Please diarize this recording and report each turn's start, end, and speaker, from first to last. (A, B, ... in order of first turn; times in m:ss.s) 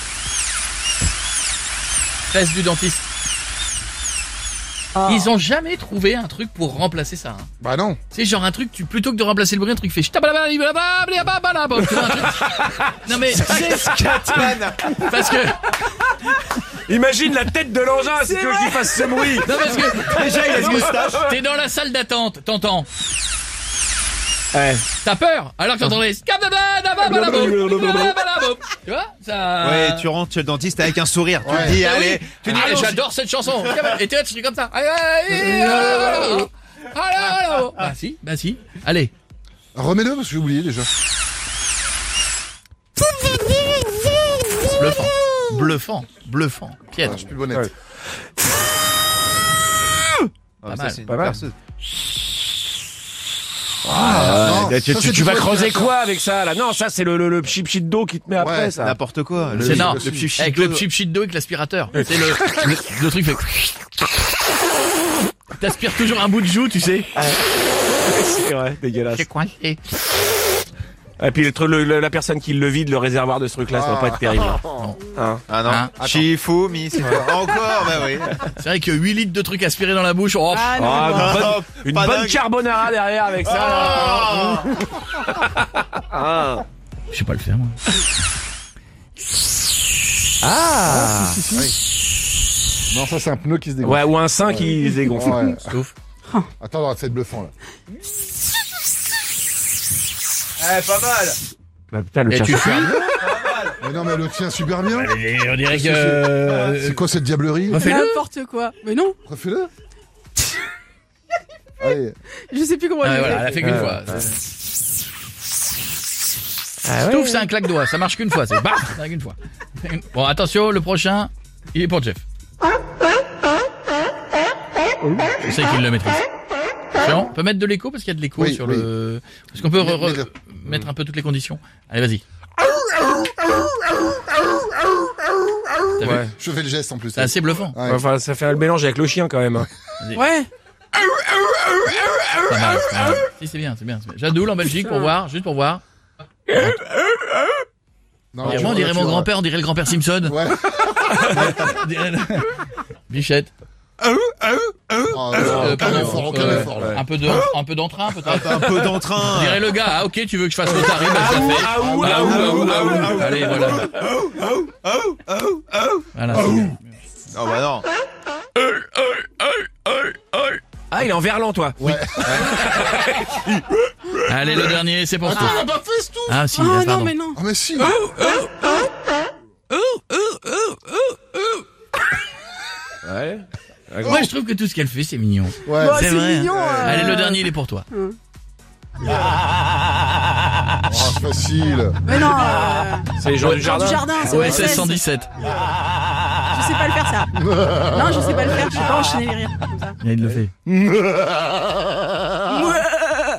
0:02.3-0:03.0 A
0:05.0-0:07.5 A
0:07.6-0:08.0 B
0:08.1-0:15.7 A
0:11.9-0:12.9 C
0:14.2-0:15.0 D
0:16.8-0:19.6 C
0:19.4-0:22.9 A
0:19.9-0:21.3 D
0:24.5-0:24.8 C
0:25.0-0:30.1 A
0:27.0-0:28.2 C
0:29.6-0:33.0 D
0:31.4-0:31.8 B
0:31.4-0:39.1 A
0:39.7-0:40.9 B
0:44.8-0:47.2 A
0:47.0-0:47.7 B
0:50.6-0:51.5 D
0:50.7-0:51.0 A
0:51.0-0:51.4 C
0:53.8-0:55.9 B
0:53.9-0:59.0 C
0:58.4-0:58.7 B
0:58.8-1:00.8 D
0:59.5-1:00.3 B
0:59.6-1:03.9 A
1:05.6-1:07.1 A
1:07.1-1:09.3 C
1:09.1-1:09.8 A
1:11.2-1:14.6 C
1:13.7-1:14.8 B
1:15.1-1:15.4 C
1:15.5-1:18.4 D
1:15.6-1:16.2 A
1:18.4-1:21.2 A
1:20.5-1:21.5 E
1:20.8-1:24.6 C
1:21.0-1:22.4 D
1:23.5-1:24.8 D
1:25.2-1:26.6 C
1:27.1-1:27.8 A
1:30.4-1:31.4 C
1:30.8-1:31.7 B
1:32.9-1:35.8 B
1:33.8-1:35.5 C
1:35.5-1:35.9 A
1:36.6-1:37.5 B
1:40.6-1:41.1 C
1:40.8-1:41.3 D
1:41.9-1:42.9 C
1:42.3-1:43.1 A
1:42.6-1:47.9 B
1:44.9-1:47.0 A
1:47.7-1:48.2 A
1:47.7-1:49.2 E
1:49.2-1:49.7 B
1:51.8-1:52.2 B
1:52.5-1:53.8 E
1:53.0-1:54.4 A
1:53.6-1:54.2 C
1:56.8-1:57.5 C
1:57.0-2:02.2 A
2:05.2-2:06.2 A
2:06.9-2:12.2 A
2:08.4-2:08.9 B
2:09.8-2:10.3 B
2:16.0-2:16.3 A
2:16.0-2:16.3 C
2:16.3-2:18.0 B
2:17.1-2:17.8 A
2:17.8-2:19.7 C
2:20.1-2:20.5 E
2:22.5-2:25.8 A
2:28.3-2:29.3 B
2:28.4-2:30.4 A
2:30.2-2:31.6 B
2:31.3-2:33.5 A
2:34.3-2:34.7 C
2:35.1-2:37.0 B
2:35.3-2:37.4 C
2:35.4-2:43.9 A
2:38.2-2:39.6 D
2:40.8-2:43.8 C
2:40.9-2:43.4 B
2:42.1-2:44.2 D
2:44.8-2:45.6 D
2:46.1-2:46.8 A
2:47.3-2:47.9 D
2:48.6-2:50.4 A
2:50.9-2:53.7 C
2:51.8-2:52.6 B
2:54.2-2:55.7 A
2:55.2-2:56.5 B
2:56.3-2:57.1 A
2:56.6-2:57.4 E
2:57.3-2:58.0 B
2:58.2-2:58.7 C
2:59.8-3:01.0 C
3:03.0-3:04.3 C
3:04.0-3:07.9 A
3:05.6-3:07.1 B
3:05.7-3:07.4 E
3:07.9-3:08.2 E
3:10.9-3:12.0 B
3:12.0-3:13.1 E
3:13.2-3:14.7 C
3:13.4-3:13.6 A
3:13.6-3:15.0 E
3:14.2-3:15.3 A
3:16.5-3:20.0 E
3:17.4-3:18.2 B
3:20.0-3:20.5 A
3:20.7-3:21.6 B
3:22.4-3:23.1 E